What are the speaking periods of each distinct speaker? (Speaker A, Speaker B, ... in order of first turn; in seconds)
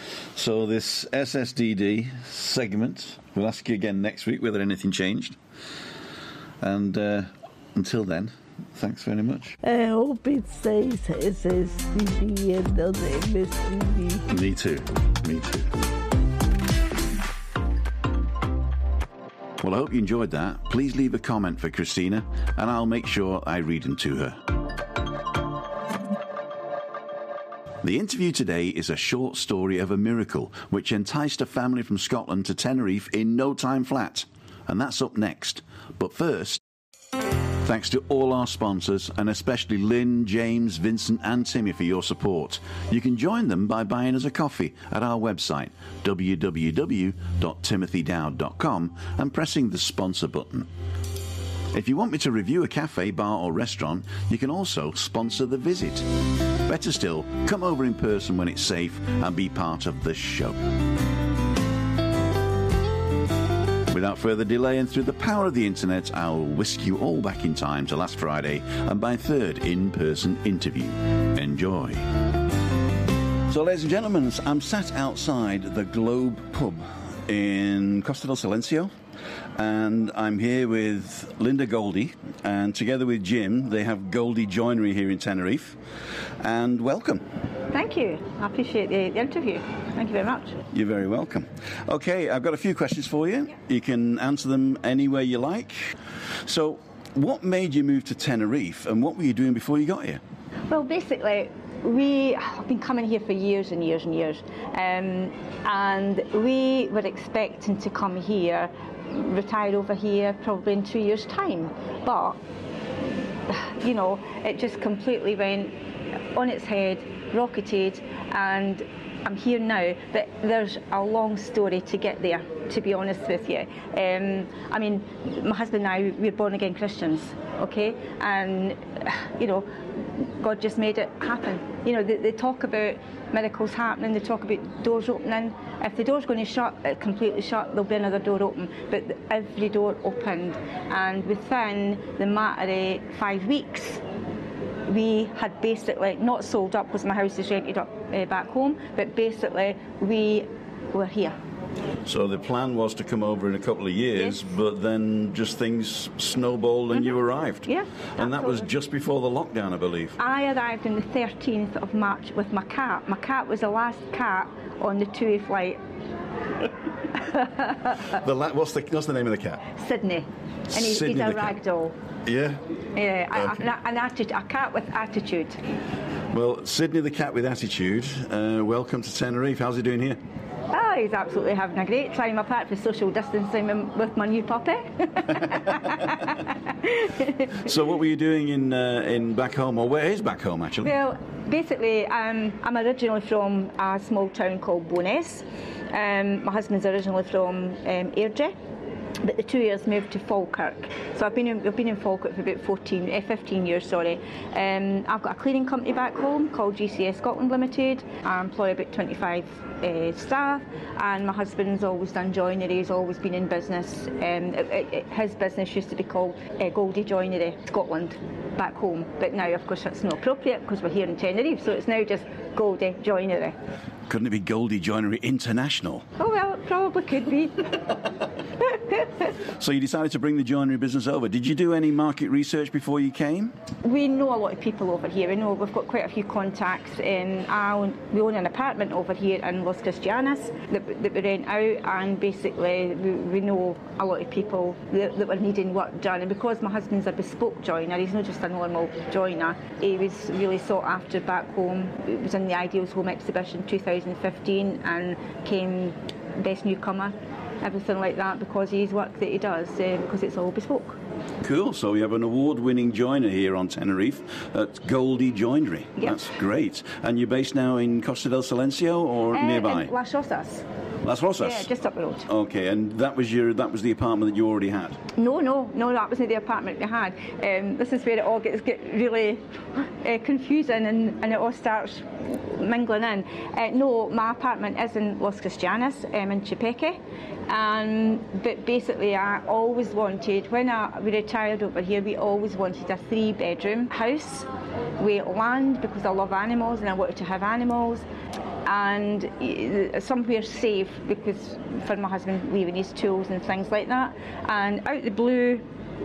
Speaker A: 0.3-5.4, 6.6-9.6, 14.3-15.7, 19.6-24.4, 27.8-36.6, 37.6-50.7, 51.7-56.1, 56.6-60.6, 63.9-72.0, 73.5-78.9, 79.6-85.8, 86.4-87.2, 90.7-100.2, 152.1-160.2, 168.1-169.6, 170.7-171.6, 172.3-172.6, 173.3-173.6, 176.3-180.2, 187.6-190.9, 224.1-226.1, 229.6-233.5, 261.4-269.9, 271.0-271.7, 272.3-275.0
Speaker B: 9.6-14.3
Speaker C: 87.7-90.6, 100.7-112.4, 113.5-115.7, 116.3-144.0, 144.9-151.4, 154.2-154.4, 157.7-158.7, 160.2-165.8, 167.2-168.0, 169.8-171.9, 172.9-175.6, 180.7-187.4, 190.8-198.5, 199.2-223.6, 226.2-227.9, 228.8-229.0, 233.8-261.0, 269.3-270.6, 271.4-272.3, 275.2-287.0, 287.5-294.5, 295.0-298.1, 298.7-305.6